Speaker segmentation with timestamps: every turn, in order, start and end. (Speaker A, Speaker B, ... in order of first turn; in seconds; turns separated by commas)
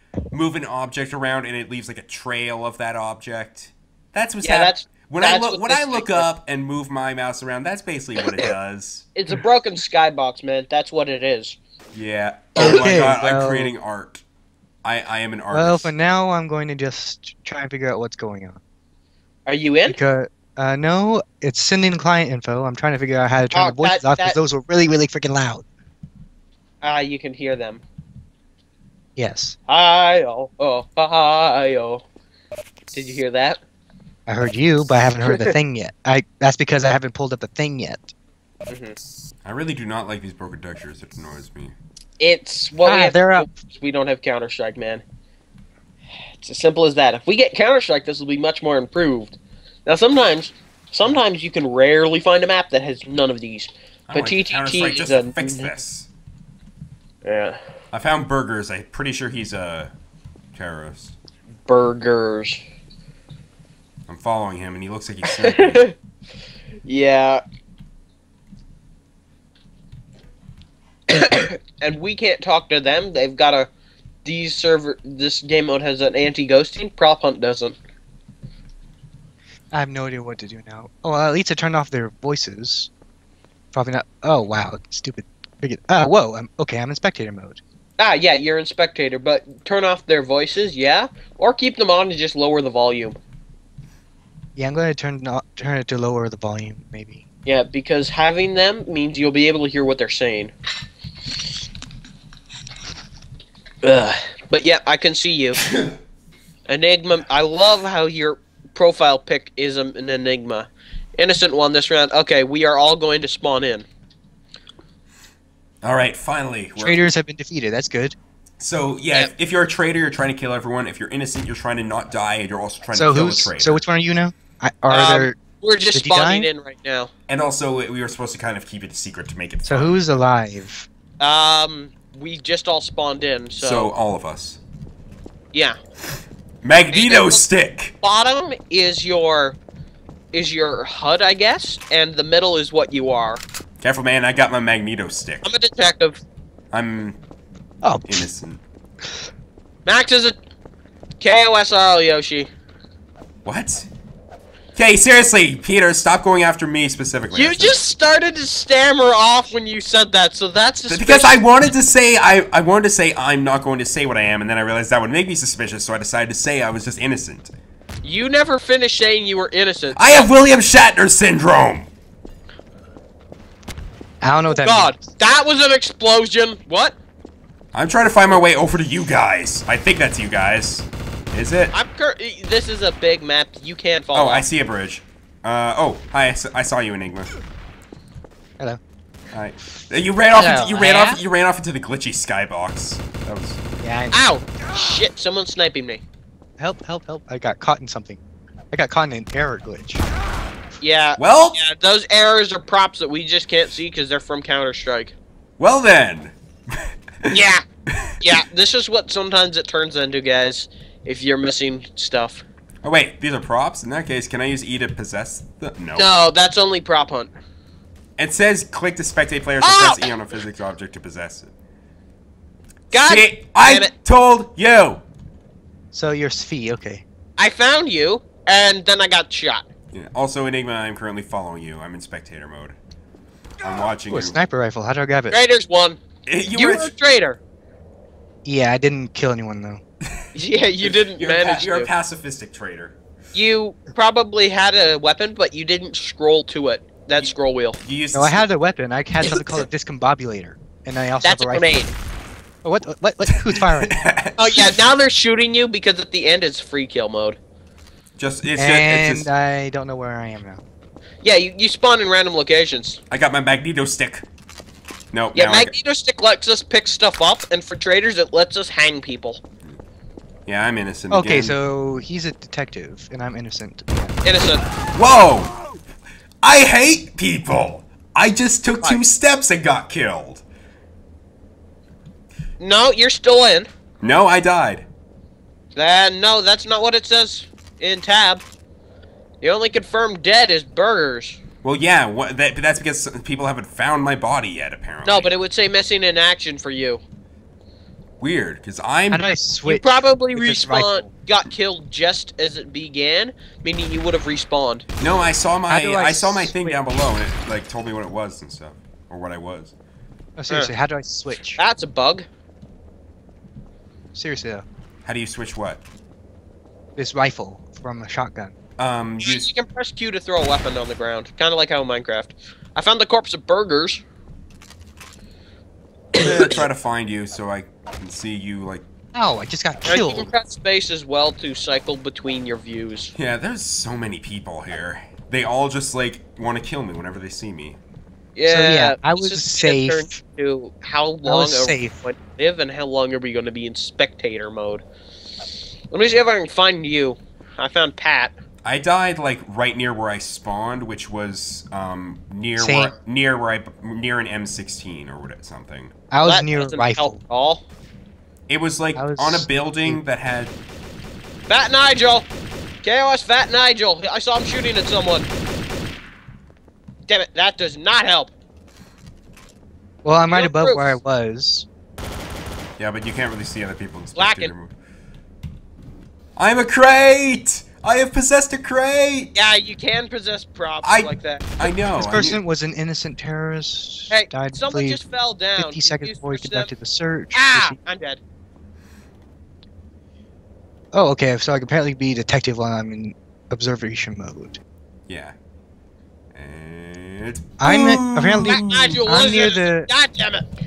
Speaker A: 0.3-9.1, Speaker B: 4.4-6.3, Speaker B: 9.2-11.6, Speaker A: 11.9-14.2, Speaker C: 12.6-13.7, Speaker A: 14.8-15.9, Speaker C: 15.5-18.6, Speaker B: 19.5-20.0, Speaker C: 19.9-25.6, Speaker B: 23.5-24.4, Speaker B: 26.8-27.8, Speaker C: 29.2-29.6, Speaker B: 29.7-32.0, Speaker B: 32.9-33.6, Speaker C: 34.3-38.1, Speaker B: 35.2-35.5, Speaker B: 38.7-39.0, Speaker A: 39.4-41.7, Speaker B: 42.2-45.0, Speaker C: 42.9-43.5, Speaker B: 46.4-55.7, Speaker A: 54.1-56.1, Speaker B: 57.2-57.6, Speaker A: 57.9-59.9, Speaker A: 60.5-61.1, Speaker B: 61.7-62.6, Speaker A: 64.1-65.9, Speaker B: 65.4-65.9, Speaker B: 66.8-67.4, Speaker B: 71.1-73.7, Speaker B: 74.2-77.8, Speaker C: 79.7-82.9, Speaker C: 83.7-87.6, Speaker B: 88.0-93.2, Speaker C: 94.6-97.2, Speaker B: 97.5-100.5, Speaker B: 103.8-105.6, Speaker B: 106.7-113.9, Speaker A: 115.8-117.0, Speaker C: 116.8-118.2, Speaker A: 118.6-123.8, Speaker C: 122.9-125.4, Speaker B: 124.9-127.1, Speaker C: 125.9-126.5, Speaker A: 127.3-130.0, Speaker C: 129.7-130.9, Speaker B: 131.2-133.9, Speaker A: 133.6-134.6, Speaker A: 136.6-137.9, Speaker B: 136.9-137.4, Speaker B: 138.0-139.6, Speaker B: 140.3-143.4, Speaker A: 143.8-145.4, Speaker B: 145.4-146.2, Speaker A: 146.7-147.2, Speaker C: 147.8-148.3, Speaker A: 148.1-148.6, Speaker B: 149.9-150.4, Speaker B: 151.2-152.5, Speaker A: 153.4-153.9, Speaker A: 154.8-157.8, Speaker B: 157.3-161.4, Speaker A: 160.9-167.5, Speaker B: 168.0-170.3, Speaker A: 170.0-171.9, Speaker C: 174.2-175.0, Speaker B: 174.5-177.0, Speaker A: 177.7-181.7, Speaker B: 181.7-184.4, Speaker A: 184.1-187.3, Speaker A: 189.3-193.6, Speaker C: 190.4-191.2, Speaker B: 190.8-191.1, Speaker C: 193.8-194.2, Speaker B: 194.1-196.0, Speaker C: 196.6-198.2, Speaker C: 198.7-200.0, Speaker B: 200.8-205.2, Speaker A: 201.2-201.6, Speaker A: 205.6-208.2, Speaker B: 207.3-207.6, Speaker B: 208.2-212.4, Speaker A: 212.8-216.1, Speaker B: 215.9-217.3, Speaker A: 218.2-221.5, Speaker B: 219.6-220.0, Speaker A: 222.9-225.0, Speaker B: 222.9-223.9, Speaker C: 225.9-227.0, Speaker B: 227.4-229.7, Speaker A: 229.9-232.8, Speaker A: 233.6-234.4, Speaker C: 234.1-235.4, Speaker B: 235.3-236.0, Speaker A: 236.3-236.9, Speaker B: 236.5-237.4, Speaker C: 238.4-239.8, Speaker B: 240.3-241.9, Speaker A: 240.8-243.0, Speaker B: 243.3-247.8, Speaker A: 247.8-248.5, Speaker C: 248.1-251.8, Speaker A: 249.3-249.6, Speaker B: 251.2-251.9, Speaker C: 252.6-254.0, Speaker A: 253.3-254.8, Speaker B: 254.4-257.4, Speaker A: 258.2-259.3, Speaker C: 258.6-260.6, Speaker B: 261.2-263.0, Speaker A: 263.1-264.2, Speaker A: 265.1-265.7, Speaker B: 265.4-269.4, Speaker A: 270.5-271.6, Speaker C: 271.1-274.1, Speaker B: 274.2-274.6, Speaker A: 274.9-275.6, Speaker A: 276.4-280.4, Speaker B: 282.6-283.7, Speaker A: 284.0-284.9, Speaker B: 285.8-288.4, Speaker B: 289.4-291.4, Speaker A: 291.6-295.3, Speaker B: 295.1-297.0, Speaker A: 298.2-299.2, Speaker C: 299.1-301.1, Speaker B: 299.7-304.9, Speaker A: 305.0-309.7, Speaker C: 305.7-306.8, Speaker C: 310.4-311.6, Speaker B: 311.6-312.3, Speaker C: 314.1-314.6, Speaker A: 315.1-315.8, Speaker C: 317.0-318.6, Speaker A: 318.8-319.5, Speaker B: 319.2-324.0, Speaker A: 326.1-328.9, Speaker C: 329.1-330.3, Speaker B: 329.9-333.1, Speaker A: 333.2-337.8, Speaker B: 338.4-344.8, Speaker C: 338.5-340.2, Speaker C: 341.2-342.0, Speaker B: 345.9-348.4, Speaker A: 348.6-355.9, Speaker C: 352.6-352.9, Speaker C: 356.1-357.2, Speaker B: 356.2-357.6, Speaker A: 358.5-360.6, Speaker C: 359.0-360.0, Speaker B: 361.5-362.3, Speaker B: 362.8-365.3, Speaker B: 367.1-368.3, Speaker C: 370.0-371.7, Speaker B: 370.3-371.0, Speaker A: 372.8-374.7, Speaker B: 374.1-374.5, Speaker A: 376.4-379.4, Speaker B: 379.4-381.6, Speaker A: 380.8-382.4, Speaker C: 382.0-385.0, Speaker B: 384.1-386.7, Speaker C: 385.6-387.8, Speaker B: 387.3-388.2, Speaker C: 390.9-394.6, Speaker A: 395.1-395.4, Speaker A: 396.3-399.0, Speaker C: 397.6-399.9, Speaker B: 398.4-400.5